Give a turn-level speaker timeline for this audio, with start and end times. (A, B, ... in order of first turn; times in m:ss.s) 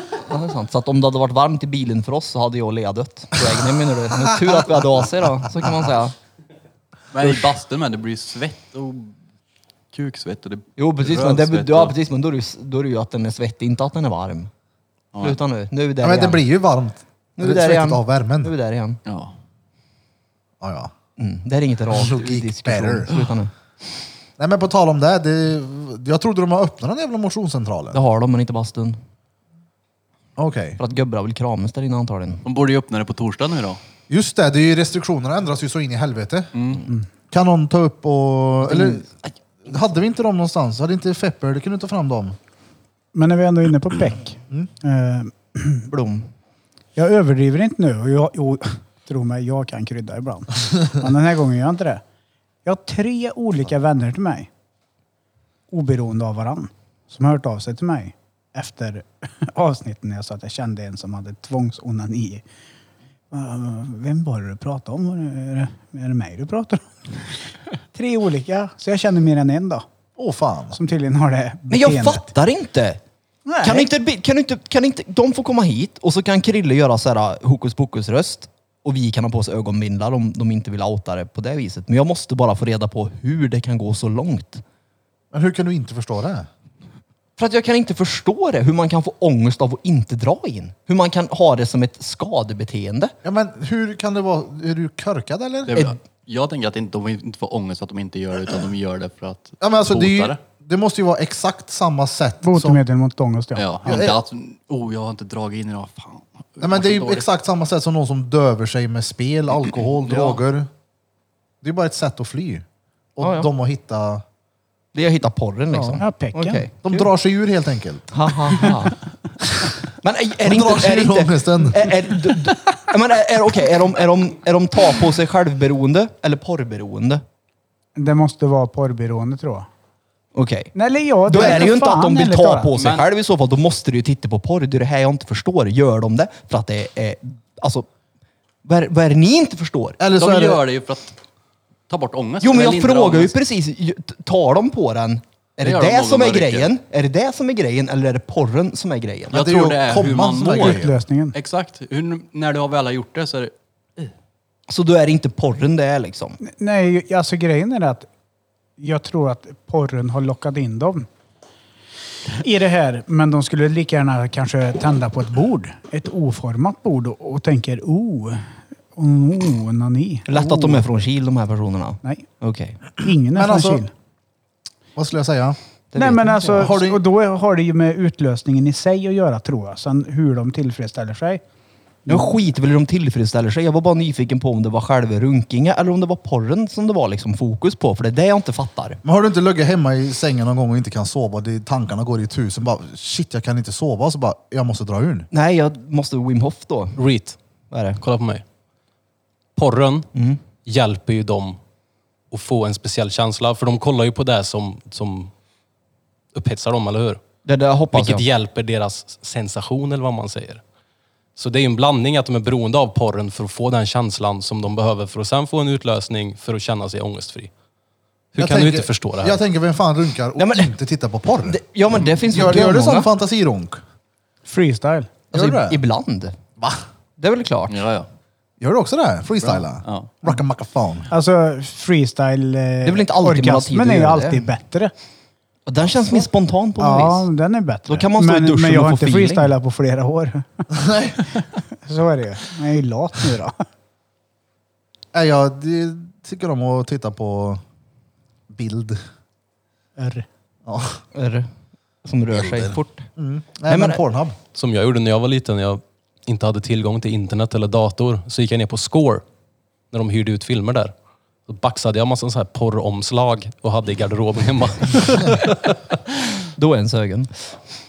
0:00.2-0:06.1 A
0:04.1-0:05.0 B
0:07.1-0:09.1 C
0:09.9-0:11.9 C
0:10.8-0:14.5 A
0:15.2-0:16.4 A
0:16.0-0:18.5 B
0:17.4-0:19.0 A
0:19.0-0:19.3 C
0:20.6-0:20.9 B
0:21.2-0:23.5 A
0:21.9-0:23.3 B
0:24.4-0:28.0 B
0:27.9-0:29.0 A
0:30.4-0:30.8 B
0:30.8-0:32.4 A
0:32.4-0:33.8 C
0:34.1-0:36.5 B
0:36.5-0:36.9 C
0:37.3-0:39.1 B
0:38.7-0:39.0 A
0:39.6-0:42.4 B
0:43.1-0:45.9 D
0:45.9-0:46.3 A
0:47.0-0:52.0 D
0:52.6-0:54.5 D
0:55.7-1:02.4 D
1:03.3-1:06.9 D
1:07.9-1:09.8 D
1:10.2-1:10.8 B
1:10.7-1:12.3 D
1:11.7-1:13.0 A
1:13.4-1:13.9 D
1:13.6-1:24.6 A
1:25.3-1:26.5 B
1:27.4-1:33.1 A
1:33.2-1:35.7 B
1:35.7-1:40.4 C
1:39.6-1:42.8 B
1:42.4-1:43.9 D
1:43.6-1:47.2 C
1:43.8-1:44.2 B
1:46.6-1:50.7 B
1:50.0-1:50.4 C
1:51.6-1:52.6 B
1:53.2-1:54.2 B
1:53.2-1:53.5 A
1:54.9-1:57.1 A
1:55.7-1:56.0 B
1:56.0-1:56.6 D
1:56.8-1:58.6 B
1:58.1-1:59.0 A
2:00.0-2:07.2 A
2:00.4-2:01.9 B
2:08.0-2:09.7 D
2:10.3-2:10.7 A
2:10.7-2:12.7 D
2:11.3-2:17.8 A
2:12.7-2:13.0 C
2:18.6-2:20.0 A
2:20.0-2:20.6 B
2:20.1-2:21.2 C
2:21.9-2:23.3 C
2:22.4-2:29.4 A
2:25.6-2:26.7 C
2:29.3-2:30.9 B
2:29.3-2:30.8 C
2:30.5-2:31.3 D
2:31.3-2:33.5 C
2:34.7-2:36.4 A
2:36.4-2:38.1 D
2:38.8-2:41.1 D
2:42.3-2:50.8 D
2:50.3-2:52.8 A
2:53.0-2:53.9 D
2:53.3-2:53.8 B
2:55.0-2:55.6 B
2:55.9-2:56.7 A
2:56.0-3:01.4 D
2:56.6-2:57.0 B
3:02.0-3:02.3 D
3:02.1-3:09.0 A
3:09.0-3:15.3 B
3:15.3-3:17.0 A
3:17.0-3:17.4 E
3:17.7-3:18.0 A
3:18.0-3:18.4 E
3:19.6-3:20.1 E
3:20.1-3:20.4 A
3:20.6-3:21.6 E
3:22.3-3:25.3 E
3:26.3-3:27.2 E
3:27.4-3:28.2 A
3:27.9-3:30.6 E
3:31.4-3:37.5 E
3:38.3-3:39.4 E
3:38.4-3:41.6 B
3:40.4-3:40.7 A
3:41.4-3:43.1 A
3:42.3-3:43.8 B
3:44.4-3:45.1 D
3:45.3-3:46.4 A
3:45.3-3:45.8 B
3:46.6-3:46.8 B
3:47.2-3:47.8 A
3:47.7-3:48.1 C
3:48.6-3:51.1 B
3:49.5-3:50.1 C
3:51.1-3:54.9 D
3:52.8-3:54.5 A
3:55.7-3:57.3 A
3:56.8-4:00.6 D
3:57.9-3:59.5 A
4:00.7-4:01.2 B
4:01.8-4:03.6 D
4:05.1-4:07.6 B
4:08.5-4:09.0 B
4:10.0-4:10.2 D
4:10.6-4:11.0 B
4:11.1-4:11.5 A
4:12.0-4:13.1 A
4:12.3-4:14.4 B
4:13.7-4:14.0 A
4:14.5-4:19.2 E
4:19.9-4:20.9 E
4:21.5-4:26.0 E
4:26.6-4:27.6 A